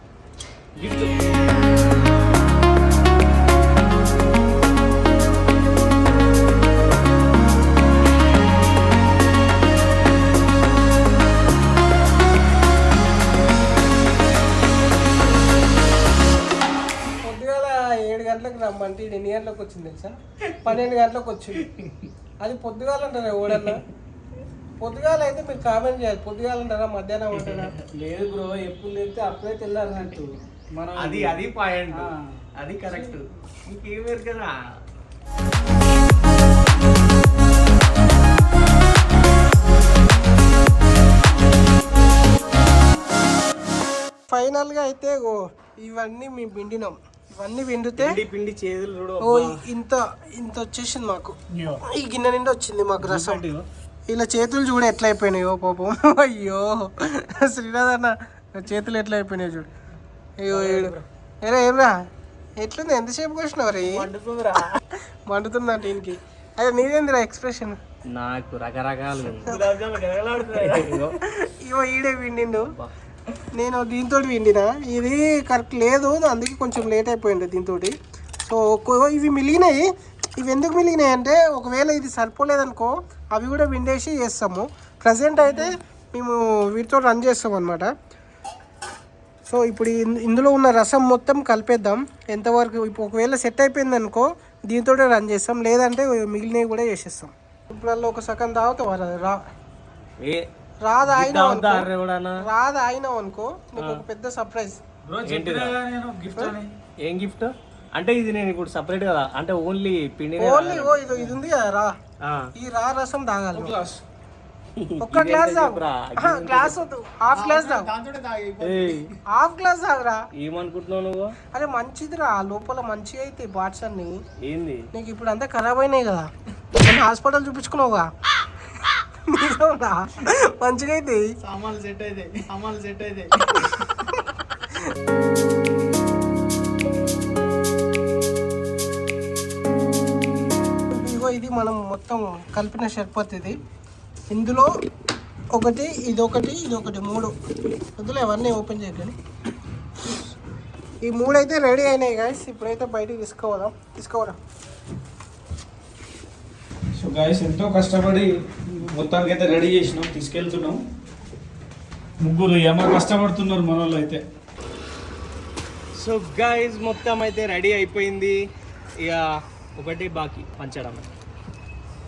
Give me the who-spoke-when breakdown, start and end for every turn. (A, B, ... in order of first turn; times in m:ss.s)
0:00.8-0:01.1 A
0:17.2-0:21.6 B
0:21.6-0:22.1 C
0:22.4-0:23.8 B
0:24.8-0:27.7 B
0:27.3-0:27.7 C
0:27.9-0:31.4 A
0:30.9-0:34.5 C
0:31.9-0:32.4 A
0:32.9-0:33.2 A
0:44.3-0:48.2 B
0:48.0-0:49.5 C
0:49.2-0:51.3 B
0:51.5-0:51.8 A
0:51.9-0:53.4 B
0:53.0-0:53.6 A
0:54.1-0:59.7 B
1:00.4-1:01.9 B
1:00.5-1:01.0 C
1:02.6-1:04.1 B
1:03.8-1:04.8 C
1:05.3-1:07.8 B
1:08.1-1:11.2 C
1:09.5-1:09.7 B
1:10.8-1:12.7 B
1:12.6-1:12.9 C
1:13.5-1:17.9 B
1:18.5-1:19.9 B
1:20.4-1:27.9 B
1:29.5-1:39.4 B
1:40.8-1:41.9 B
1:41.0-1:42.4 C
1:42.4-1:44.8 B
1:43.8-1:44.0 C
1:45.0-1:46.7 A
1:45.2-1:45.7 C
1:47.0-1:51.3 C
1:50.4-1:51.9 B
1:52.6-1:53.8 B
1:53.5-1:54.0 A
1:54.8-1:56.8 C
1:55.0-1:57.9 B
1:57.3-1:59.0 D
1:58.6-1:59.1 C
1:59.3-2:00.2 B
2:00.4-2:01.3 C
2:01.5-2:04.2 B
2:04.4-2:04.8 C
2:04.9-2:06.3 B
2:06.8-2:08.0 B
2:09.3-2:11.2 B
2:11.4-2:13.8 D
2:20.9-2:23.6 B
2:24.3-2:24.7 B
2:25.5-2:27.3 B
2:28.0-2:29.1 B
2:31.0-2:34.4 B
2:36.9-2:40.8 A
2:42.2-2:44.2 A
2:46.0-2:48.4 C
2:49.8-2:51.0 C